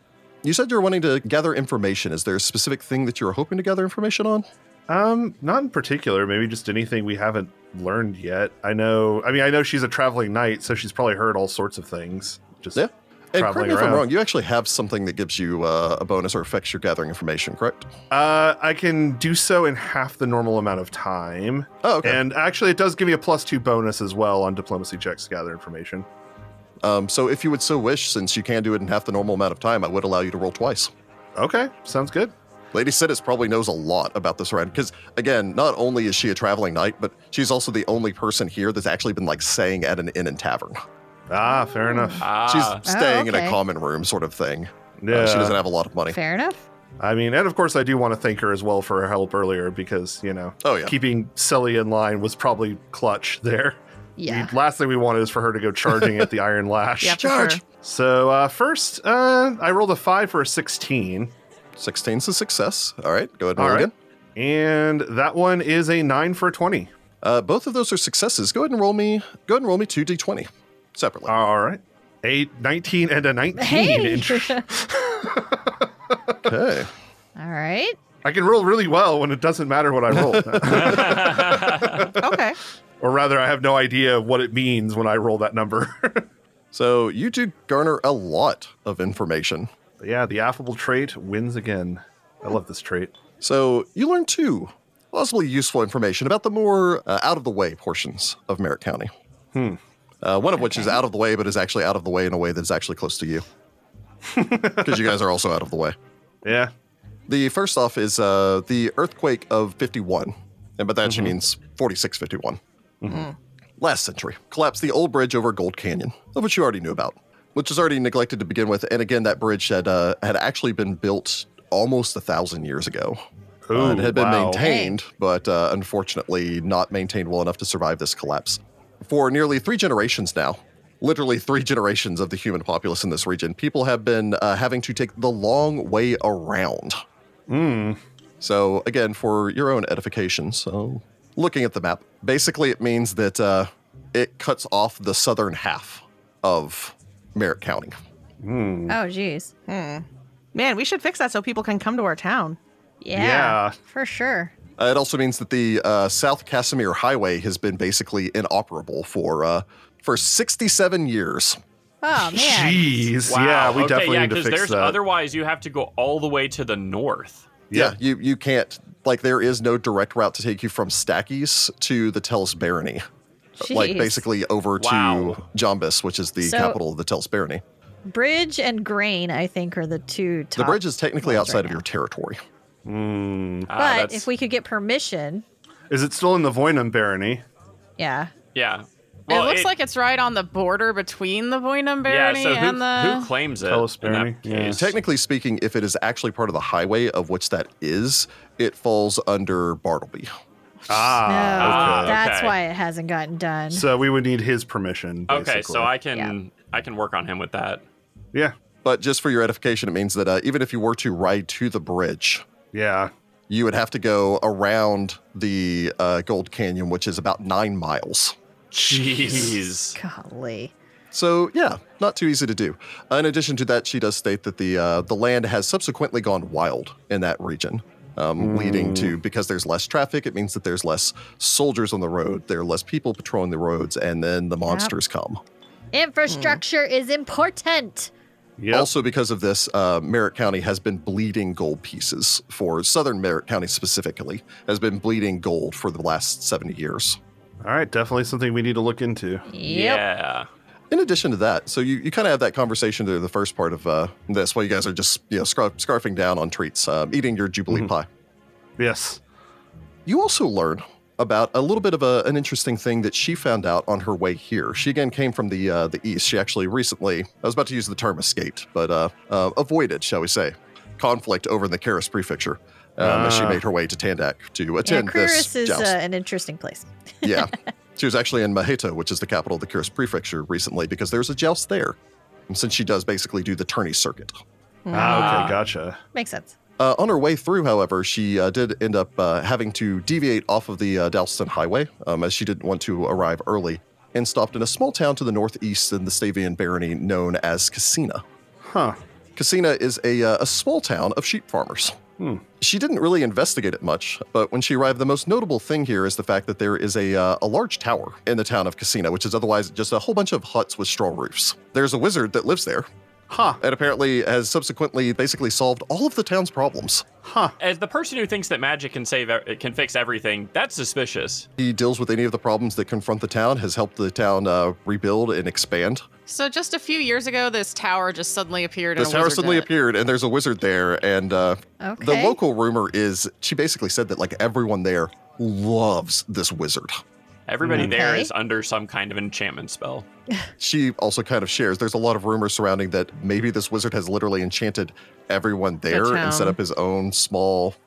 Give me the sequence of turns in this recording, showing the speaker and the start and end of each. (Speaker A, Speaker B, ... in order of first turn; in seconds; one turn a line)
Speaker A: 0.4-4.5
Speaker B: 4.9-14.1
Speaker A: 12.7-17.9
Speaker B: 18.1-26.1
Speaker A: 21.8-22.2
Speaker A: 26.8-30.9
Speaker B: 31.4-32.3
Speaker A: 32.7-40.8
Speaker B: 41.3-42.3
Speaker C: 41.9-42.2
Speaker D: 42.2-42.8
Speaker A: 42.4-46.2
Speaker C: 42.9-43.6
Speaker B: 45.0-45.6
Speaker C: 46.1-46.6
Speaker B: 47.0-61.3
Speaker A: 50.6-51.0
Speaker C: 54.2-54.5
Speaker A: 56.0-56.3
Speaker E: 57.0-57.6
Speaker A: 57.1-57.6
Speaker A: 61.8-63.9
Speaker B: 63.5-66.9
Speaker A: 67.2-71.3
Speaker B: 71.3-76.4
Speaker C: 73.6-74.6
Speaker A: 76.4-76.9
Speaker C: 77.4-78.0
Speaker B: 78.2-82.1
Speaker D: 80.7-82.1
Speaker E: 82.2-82.6
Speaker B: 83.0-86.3
Speaker A: 86.7-89.7
Speaker B: 90.0-93.1
Speaker A: 93.4-99.1
Speaker B: 99.5-99.8
Speaker A: 100.2-103.4
Speaker B: 104.2-105.1
Speaker A: 104.8-106.0
Speaker B: 106.4-106.7
Speaker A: 107.3-112.6
Speaker B: 111.0-111.3
Speaker B: 113.0-113.3
Speaker A: 113.8-123.2
Speaker B: 123.7-124.6
Speaker A: 123.7-137.0
Speaker C: 124.6-125.0
Speaker B: 137.5-138.0
Speaker A: 138.4-147.9
Speaker B: 148.4-149.0
Speaker C: 148.9-149.5
Speaker E: 149.7-152.6
Speaker C: 153.0-154.5
Speaker B: 153.1-153.8
Speaker A: 154.8-161.6
Speaker C: 162.0-163.1
Speaker B: 162.2-165.0
Speaker D: 163.2-167.6
Speaker B: 167.7-167.9
Speaker A: 167.7-173.0
Speaker C: 173.6-174.2
Speaker A: 173.6-177.6
Speaker D: 174.8-175.4
Speaker C: 176.4-176.8
Speaker C: 178.1-181.8
Speaker A: 180.6-182.4
Speaker B: 182.8-183.7
Speaker D: 183.7-184.2
Speaker C: 183.7-185.4
Speaker B: 185.9-187.4
Speaker C: 188.0-188.3
Speaker D: 188.5-189.7
Speaker F: 189.3-193.3
Speaker D: 192.1-194.9
Speaker B: 193.6-194.8
Speaker A: 194.7-200.3
Speaker B: 200.9-202.2
Speaker C: 201.2-203.9
Speaker D: 201.6-202.6
Speaker B: 203.7-205.9
Speaker D: 205.3-207.8
Speaker A: 208.8-212.4
Speaker B: 212.7-213.1
Speaker A: 213.5-218.3
Speaker D: 218.7-220.0
Speaker B: 218.8-219.6
Speaker C: 219.9-220.7
Speaker A: 221.1-235.4
Speaker B: 228.4-229.2
Speaker C: 234.7-234.9
Speaker C: 235.9-238.1
Speaker E: 236.3-236.6
Speaker B: 238.6-238.9
Speaker A: 238.7-247.2
Speaker B: 247.6-249.5
Speaker C: 249.5-250.0
Speaker D: 249.6-250.5
Speaker A: 250.9-258.1
Speaker B: 258.8-259.2
Speaker A: 260.1-275.9
Speaker B: 273.0-273.6
Speaker C: 274.8-277.5
Speaker A: 277.2-282.0
Speaker A: 282.5-284.4
Speaker E: 284.9-285.3
Speaker B: 284.9-286.0
Speaker D: 284.9-285.6
Speaker C: 286.1-286.5
Speaker A: 286.8-298.2
Speaker B: 298.6-299.0
Speaker A: 299.4-302.0
Speaker B: 302.2-302.4
Speaker A: 302.6-312.9
Speaker B: 313.3-313.6
Speaker A: 313.6-317.1
Speaker B: 317.2-317.5
Speaker D: 317.6-321.5
Speaker A: 321.6-326.0
Speaker F: 326.3-329.7
Speaker A: 328.9-337.0
Speaker C: 331.8-332.4
Speaker D: 337.5-340.1
Speaker B: 337.6-338.0
Speaker C: 337.7-338.3
Speaker A: 340.6-347.8
Speaker E: 345.9-346.6